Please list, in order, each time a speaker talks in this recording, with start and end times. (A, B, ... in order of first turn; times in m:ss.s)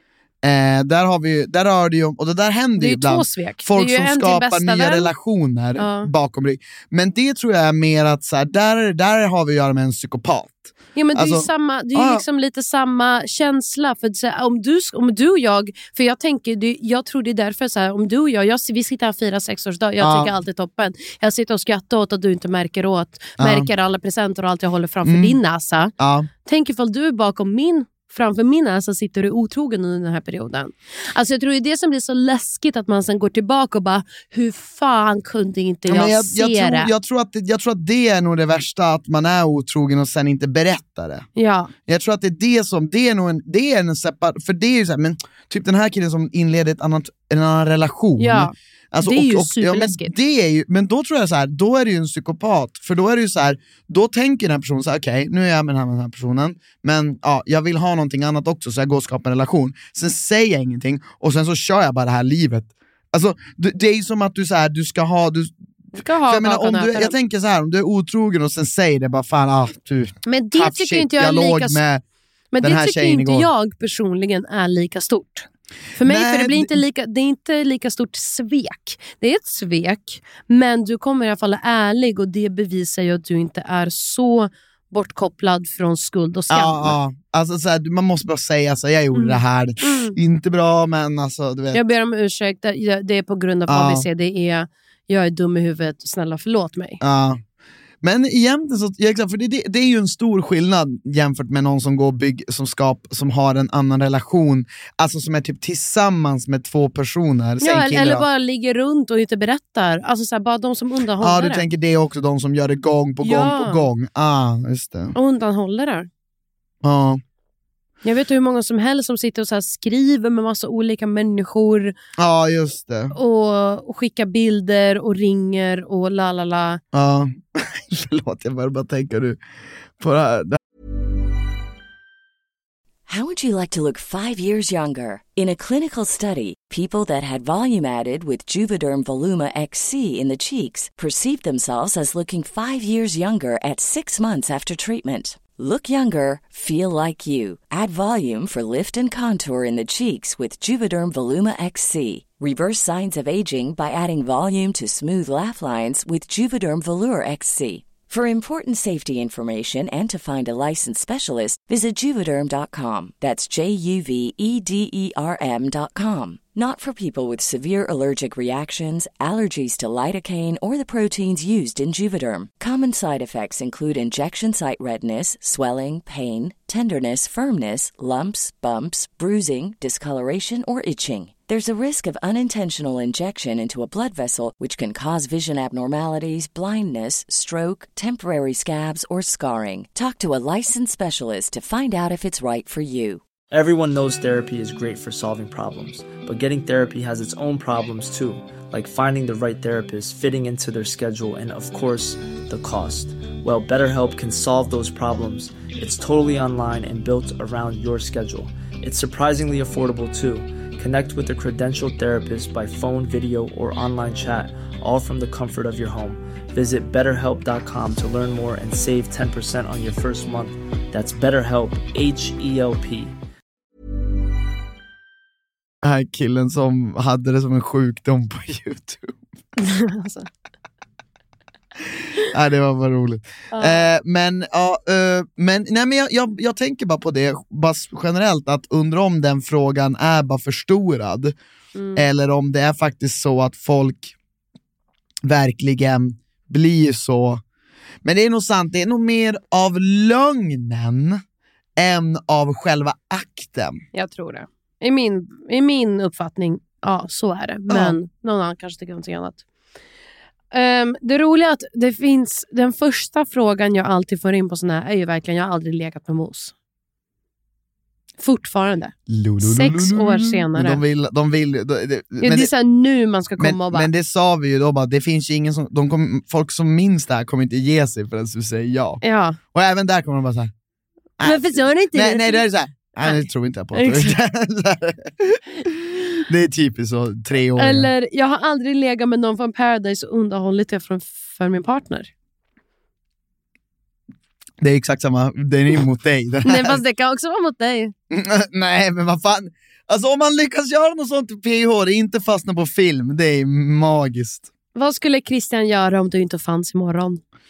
0:00.4-0:12.2 A
0:02.8-0:05.1 B
0:05.8-0:06.1 B
0:10.9-0:25.9 B
0:20.0-0:20.3 A
0:23.4-0:23.7 A
0:25.0-0:25.4 A
0:26.0-0:26.3 A
0:26.4-0:36.9 B
0:35.9-0:41.2 A
0:41.4-0:41.7 B
0:41.9-1:05.5 A
0:48.2-0:50.1 B
1:06.0-1:07.1 B
1:06.2-1:12.0 A
1:10.2-1:11.8 B
1:12.5-1:27.0 B
1:12.6-1:13.5 A
1:16.0-1:16.8 A
1:26.5-1:31.8 A
1:29.1-1:30.2 B
1:31.7-1:37.0 B
1:33.7-1:34.1 A
1:37.0-1:37.4 A
1:38.0-1:48.3 A
1:47.6-1:51.6 B
1:51.2-1:55.1 A
1:53.2-1:53.9 B
1:55.1-1:56.1 B
1:56.8-1:57.2 A
1:58.0-2:01.9 B
2:02.2-2:03.1 A
2:03.1-2:06.8 B
2:06.9-2:09.4 A
2:10.0-2:10.6 A
2:13.1-3:13.2 C
3:13.5-3:43.1 D
3:45.8-3:49.2 A
3:49.6-3:50.3 B
3:52.2-4:01.4 A
3:53.5-3:53.8 B
4:01.7-4:02.0 B
4:01.9-4:04.1 A
4:05.2-4:07.4 A
4:08.0-4:11.2 A
4:11.8-4:13.8 A
4:13.9-4:19.4 B
4:17.7-4:18.0 A
4:20.5-4:26.5 B
4:28.2-4:30.8 B
4:29.1-4:32.5 A
4:32.2-4:33.9 B
4:33.4-4:39.0 A
4:39.0-4:39.4 B
4:39.5-4:40.5 A
4:41.2-4:47.9 A
4:41.2-4:42.4 B
4:43.0-4:44.2 B
4:47.6-4:52.1 B
4:54.6-4:56.8 A
4:56.4-4:57.9 B
4:58.1-5:04.5 A
5:04.7-5:07.2 B